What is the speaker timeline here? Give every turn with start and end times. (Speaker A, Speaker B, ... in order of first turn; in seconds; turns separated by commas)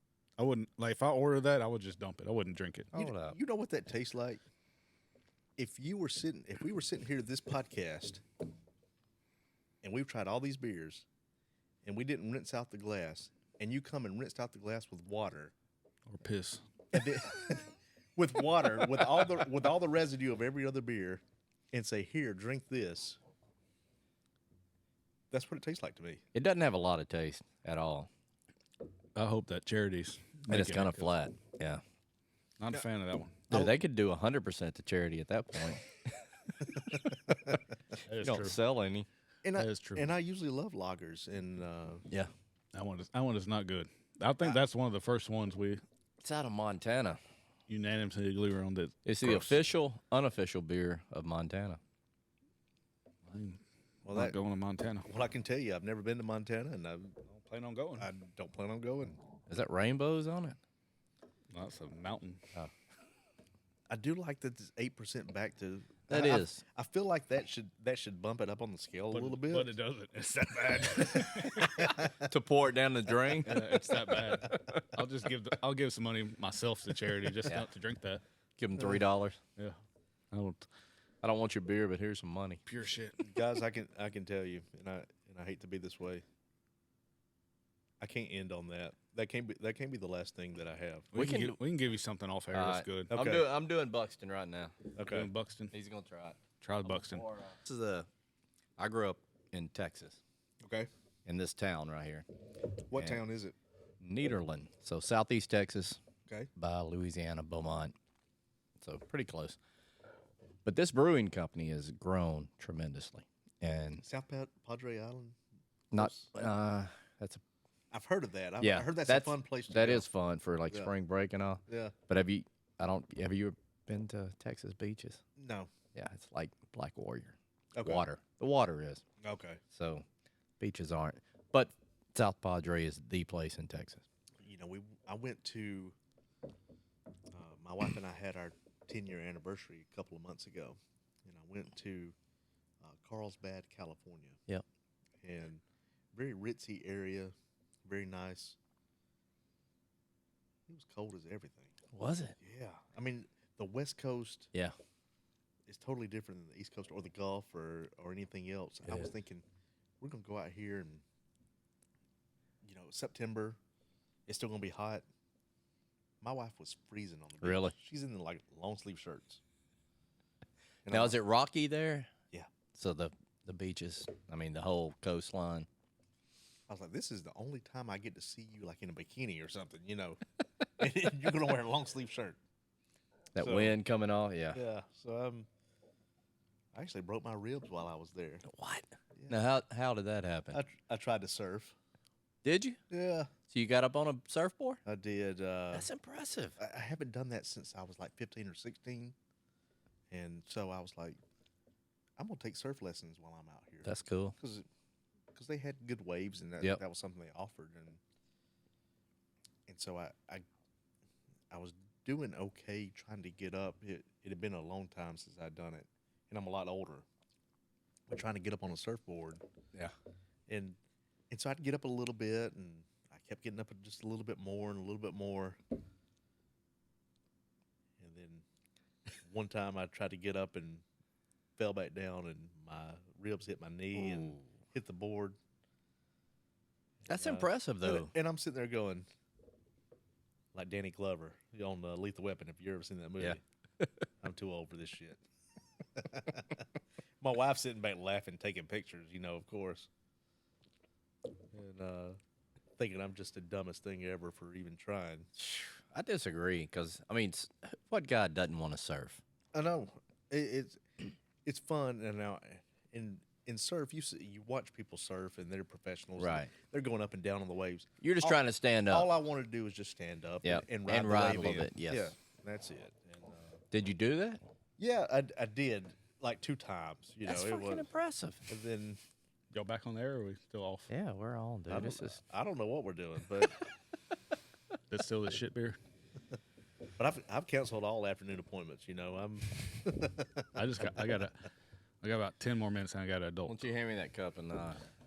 Speaker A: 0.4-2.9, Speaker B: 2.9-3.4, Speaker C: 3.0-4.4, Speaker C: 5.6-8.2, Speaker C: 9.8-11.1, Speaker C: 11.8-15.5, Speaker A: 16.1-16.6, Speaker C: 16.9-23.2, Speaker C: 25.3-26.2, Speaker B: 26.3-28.1, Speaker A: 29.2-31.1, Speaker B: 30.5-31.8, Speaker A: 32.6-33.5, Speaker B: 33.5-35.9, Speaker C: 36.6-37.6, Speaker A: 38.0-38.6, Speaker B: 38.2-39.1, Speaker C: 39.4-42.0, Speaker A: 39.5-40.1, Speaker A: 42.7-45.8, Speaker B: 46.2-47.2, Speaker A: 47.7-49.6, Speaker B: 49.0-51.8, Speaker A: 53.3-53.6, Speaker C: 54.0-54.4, Speaker A: 54.1-55.1, Speaker C: 55.1-57.2, Speaker A: 57.3-58.1, Speaker C: 58.0-59.2, Speaker B: 59.5-60.6, Speaker A: 61.5-62.4, Speaker C: 63.9-69.7, Speaker B: 66.1-66.6, Speaker A: 69.1-71.9, Speaker C: 71.2-72.3, Speaker B: 72.2-74.8, Speaker A: 73.5-78.2, Speaker B: 78.6-79.4, Speaker A: 80.3-80.7, Speaker B: 81.2-82.6, Speaker A: 82.7-83.2, Speaker C: 83.2-86.2, Speaker C: 88.0-91.1, Speaker A: 91.1-93.1, Speaker B: 91.1-91.6, Speaker B: 92.5-94.8, Speaker C: 93.1-93.5, Speaker C: 95.0-95.3, Speaker A: 95.1-95.7, Speaker B: 95.7-98.1, Speaker A: 96.6-97.3, Speaker B: 98.8-100.2, Speaker C: 100.6-100.9, Speaker B: 101.3-102.3, Speaker C: 102.9-103.5, Speaker B: 102.9-103.2, Speaker B: 104.0-106.0, Speaker B: 106.6-107.9, Speaker B: 108.8-109.6, Speaker B: 110.7-114.0, Speaker C: 114.0-115.4, Speaker B: 115.9-117.4, Speaker C: 115.9-116.3, Speaker C: 117.9-120.1, Speaker B: 118.6-125.2, Speaker C: 121.7-121.9, Speaker C: 125.4-125.7, Speaker B: 125.9-129.0, Speaker C: 127.8-128.0, Speaker C: 129.2-129.6, Speaker B: 129.7-130.1, Speaker B: 130.6-134.0, Speaker C: 134.4-136.0, Speaker C: 137.3-142.2, Speaker C: 142.8-144.4, Speaker C: 145.2-147.3, Speaker C: 147.9-148.6, Speaker C: 150.7-151.7, Speaker B: 151.9-152.4, Speaker C: 152.4-154.5, Speaker C: 155.7-159.5, Speaker C: 160.0-161.0, Speaker C: 162.6-163.6, Speaker C: 164.3-165.1, Speaker C: 166.2-169.4, Speaker B: 167.4-167.8, Speaker C: 170.8-171.2, Speaker B: 170.9-172.1, Speaker B: 172.7-175.7, Speaker C: 176.7-180.2, Speaker C: 180.8-182.4, Speaker B: 183.3-184.6, Speaker C: 183.4-183.8, Speaker C: 184.5-185.5, Speaker C: 186.7-188.5, Speaker B: 188.5-190.6, Speaker C: 189.2-189.4, Speaker C: 190.5-191.8, Speaker B: 192.4-192.8, Speaker C: 192.9-193.3, Speaker B: 193.5-194.8, Speaker C: 194.9-195.9, Speaker B: 195.7-196.6, Speaker C: 196.6-199.2, Speaker C: 200.1-201.2, Speaker C: 202.2-204.7, Speaker B: 203.8-204.3, Speaker C: 205.3-208.0, Speaker C: 209.7-210.4, Speaker C: 211.5-217.1, Speaker C: 218.1-219.4, Speaker C: 220.5-220.8, Speaker C: 221.3-225.6, Speaker C: 228.0-228.4, Speaker C: 229.2-230.8, Speaker C: 231.6-235.4, Speaker B: 234.0-234.4, Speaker C: 237.1-239.1, Speaker B: 237.1-238.1, Speaker C: 240.5-243.4, Speaker B: 243.2-243.9, Speaker C: 244.2-245.2, Speaker C: 245.9-246.6, Speaker C: 247.2-249.9, Speaker C: 251.5-252.2, Speaker C: 252.8-255.3, Speaker B: 255.4-259.2, Speaker C: 259.5-260.8, Speaker C: 261.4-273.6, Speaker B: 266.2-266.5, Speaker B: 268.0-269.1, Speaker B: 270.4-272.1, Speaker B: 273.7-274.4, Speaker C: 274.8-277.9, Speaker B: 277.2-278.4, Speaker C: 278.5-279.0, Speaker A: 279.5-280.9, Speaker B: 280.9-282.2, Speaker C: 281.7-283.6, Speaker A: 284.9-285.8, Speaker C: 287.0-290.9, Speaker A: 290.6-291.4, Speaker A: 292.0-293.7, Speaker B: 293.4-294.8